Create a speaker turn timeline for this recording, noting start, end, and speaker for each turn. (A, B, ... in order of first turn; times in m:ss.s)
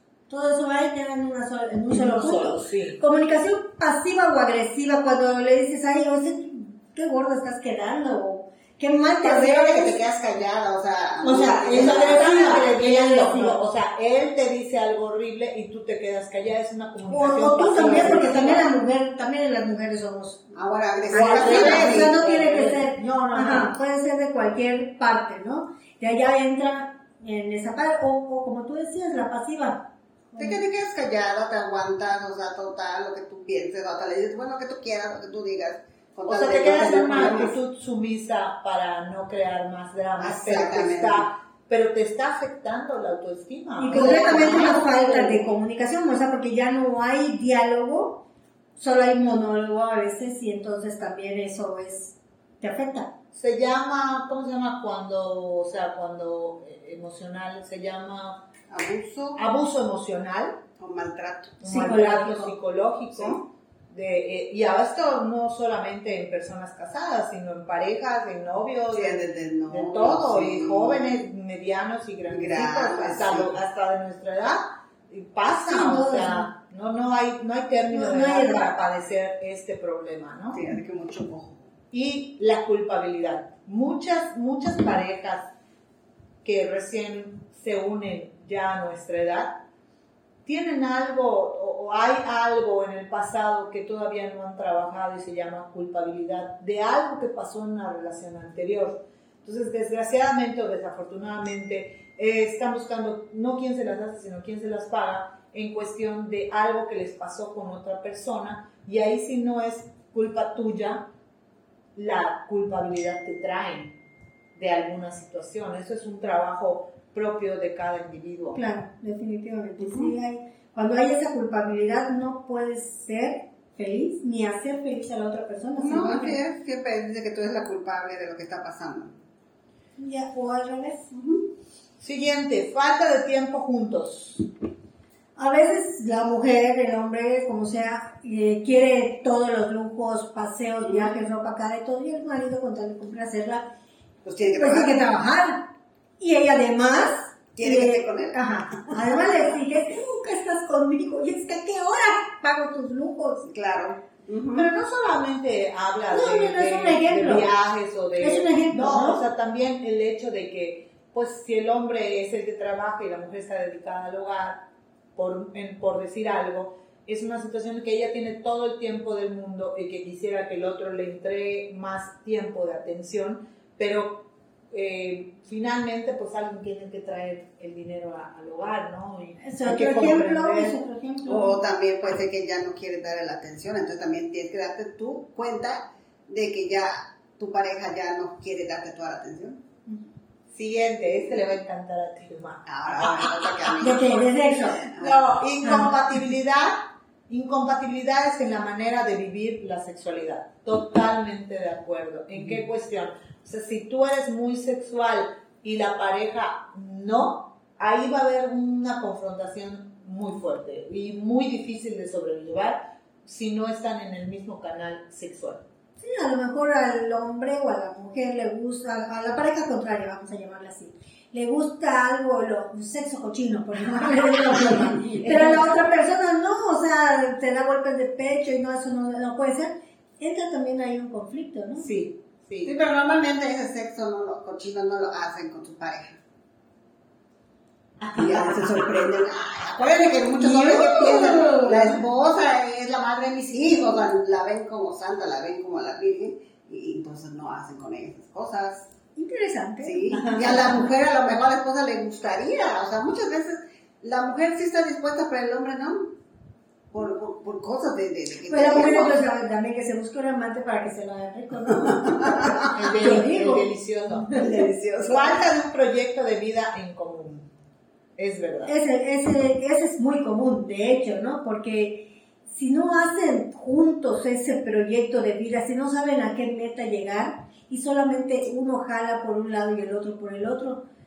0:00.3-0:10.0 A
0:01.9-0:03.0 B
0:09.2-0:12.6 C
0:11.2-0:13.6 A
0:11.7-0:18.7 B
0:17.1-0:20.5 A
0:17.8-0:18.3 C
0:20.6-0:22.2 C
0:21.1-0:30.6 A
0:21.1-0:23.7 B
0:30.4-0:37.5 C
0:36.3-0:45.3 B
0:40.2-0:41.3 C
0:43.8-0:48.2 A
0:43.9-0:45.4 C
0:48.8-0:53.1 A
0:53.3-0:58.4 B
0:58.7-0:59.4 C
0:59.4-1:00.6 B
1:00.8-1:02.0 C
1:01.6-1:20.6 B
1:01.6-1:02.5 A
1:03.1-1:03.4 C
1:08.9-1:11.2 C
1:12.3-1:13.5 C
1:15.7-1:16.5 A
1:17.9-1:18.7 A
1:20.5-1:21.7 C
1:21.9-1:25.5 B
1:26.4-1:29.6 B
1:30.4-1:51.0 B
1:52.0-1:54.0 B
1:54.6-1:58.6 B
1:58.5-2:06.4 A
1:59.8-2:00.1 C
2:05.8-2:09.1 C
2:10.0-2:11.1 A
2:11.1-2:11.4 C
2:12.0-2:14.4 B
2:15.4-2:23.7 A
2:20.8-2:21.2 C
2:24.2-2:25.0 C
2:24.6-2:25.7 A
2:26.2-2:33.5 A
2:27.6-2:29.1 C
2:33.4-2:34.7 C
2:34.5-2:44.6 B
2:36.1-2:37.5 A
2:38.2-2:39.2 A
2:45.2-3:00.8 B
2:59.4-3:01.6 A
3:01.3-3:09.6 C
3:10.5-3:14.0 B
3:12.7-3:15.2 C
3:13.8-3:14.8 A
3:15.0-3:16.8 B
3:15.6-3:15.9 A
3:17.3-3:35.6 B
3:36.0-3:51.9 A
3:45.1-3:45.7 B
3:51.8-3:52.7 B
3:52.6-3:56.2 C
3:58.0-3:58.6 B
3:58.2-4:08.9 C
4:00.4-4:02.0 B
4:09.2-4:10.2 A
4:09.8-4:16.1 C
4:10.1-4:10.7 B
4:16.9-4:19.2 C
4:18.5-4:24.4 A
4:22.7-4:24.5 B
4:24.3-4:25.4 C
4:25.1-4:27.5 B
4:28.2-4:28.7 B
4:28.7-4:40.8 A